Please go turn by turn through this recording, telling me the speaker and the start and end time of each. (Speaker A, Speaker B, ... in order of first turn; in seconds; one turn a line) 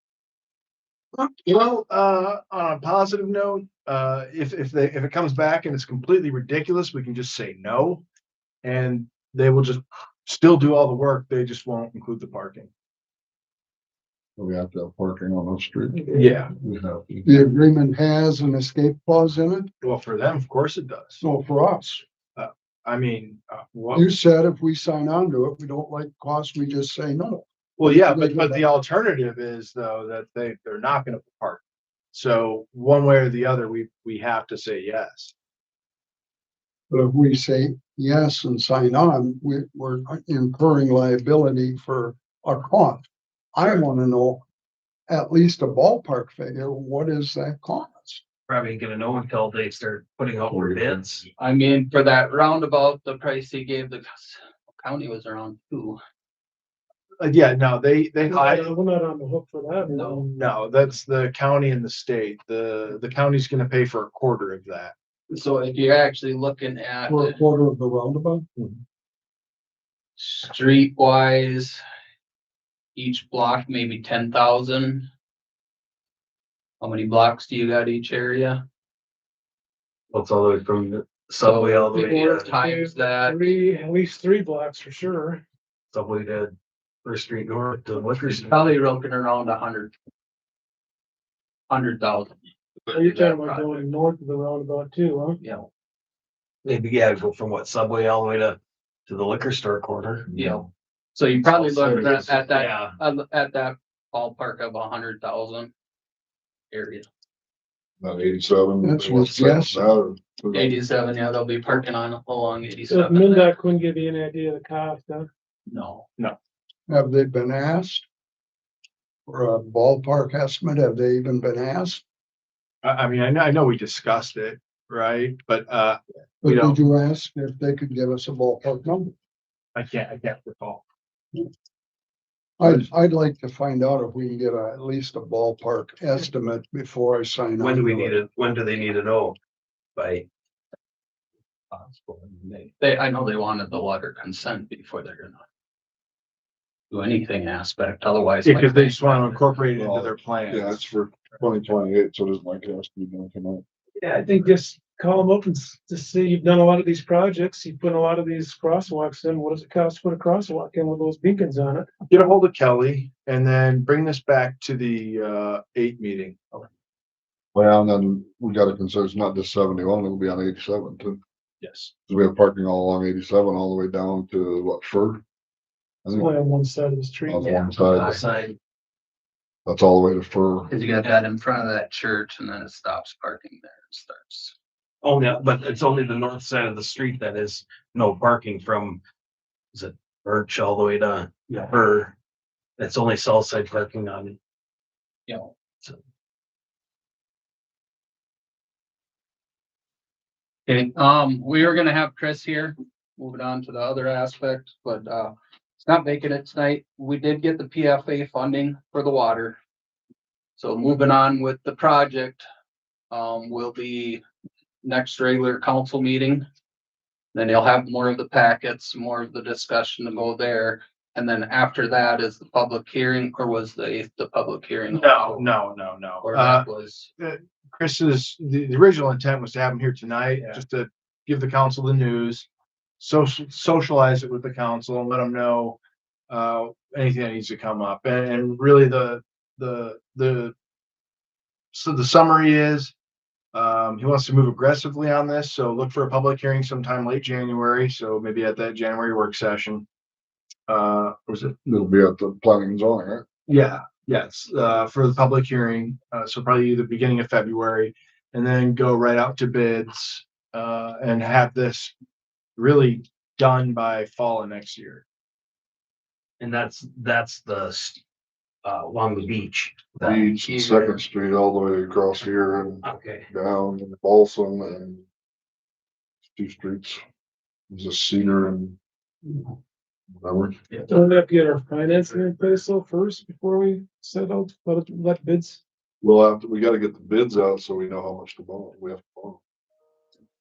Speaker A: 1.1-8.0
Speaker A: 8.6-12.7
Speaker B: 14.4-17.3
Speaker A: 16.1-16.5
Speaker C: 17.2-19.7
Speaker A: 19.8-21.2
Speaker C: 21.2-22.0
Speaker A: 22.4-24.1
Speaker C: 23.9-28.6
Speaker A: 27.8-31.6
Speaker A: 32.1-35.3
Speaker C: 36.9-44.4
Speaker C: 45.1-48.2
Speaker D: 48.5-51.2
Speaker B: 50.5-51.3
Speaker E: 51.4-56.0
Speaker A: 57.2-58.7
Speaker F: 58.2-60.3
Speaker E: 59.9-60.2
Speaker A: 60.2-64.9
Speaker E: 65.3-67.4
Speaker C: 67.1-68.4
Speaker E: 70.2-71.8
Speaker E: 72.9-75.1
Speaker E: 76.8-78.6
Speaker D: 80.1-82.5
Speaker E: 81.4-83.5
Speaker F: 81.9-85.4
Speaker D: 85.9-88.6
Speaker E: 88.4-89.9
Speaker E: 91.7-92.3
Speaker E: 92.9-93.8
Speaker F: 92.9-95.4
Speaker E: 95.4-95.7
Speaker D: 96.6-100.3
Speaker E: 100.3-105.7
Speaker D: 101.4-103.0
Speaker B: 102.0-102.2
Speaker E: 106.7-107.1
Speaker B: 108.0-110.8
Speaker C: 108.8-109.9
Speaker E: 110.5-113.5
Speaker F: 112.9-115.3
Speaker E: 115.7-116.0
Speaker C: 116.9-118.0
Speaker C: 119.3-122.0
Speaker A: 122.8-126.8
Speaker C: 126.4-129.1
Speaker A: 129.7-130.8
Speaker C: 132.6-138.2
Speaker D: 137.6-139.4
Speaker D: 139.9-140.3
Speaker D: 141.7-142.7
Speaker E: 142.8-145.4
Speaker E: 146.9-149.5
Speaker A: 148.4-151.4
Speaker B: 149.7-153.6
Speaker F: 154.0-161.9
Speaker A: 162.1-166.7
Speaker B: 167.5-171.2
Speaker A: 171.6-171.9
Speaker B: 172.1-175.2
Speaker B: 176.0-176.3
Speaker F: 176.1-177.7
Speaker B: 177.3-178.2
Speaker D: 177.8-178.6
Speaker B: 179.7-180.7
Speaker E: 180.7-184.5
Speaker D: 185.0-189.0
Speaker D: 189.7-192.1
Speaker D: 192.8-194.4
Speaker E: 195.3-195.5
Speaker E: 200.7-209.6
Speaker E: 210.6-212.4
Speaker E: 213.1-214.2
Speaker E: 214.8-216.4
Speaker E: 217.3-225.5
Speaker A: 224.9-226.7
Speaker E: 226.2-227.1
Speaker A: 227.2-232.5
Speaker A: 233.0-235.8
Speaker A: 236.3-240.5
Speaker A: 241.7-242.9
Speaker A: 243.5-249.8
Speaker A: 250.7-251.5
Speaker B: 251.4-253.2
Speaker A: 253.5-261.9
Speaker A: 262.6-265.0
Speaker D: 266.4-268.0
Speaker D: 268.6-270.3
Speaker B: 270.0-275.0
Speaker E: 270.4-271.0
Speaker D: 272.8-273.3
Speaker B: 276.3-277.0
Speaker B: 277.7-279.4
Speaker B: 280.1-280.6
Speaker F: 280.9-285.6
Speaker B: 286.0-289.4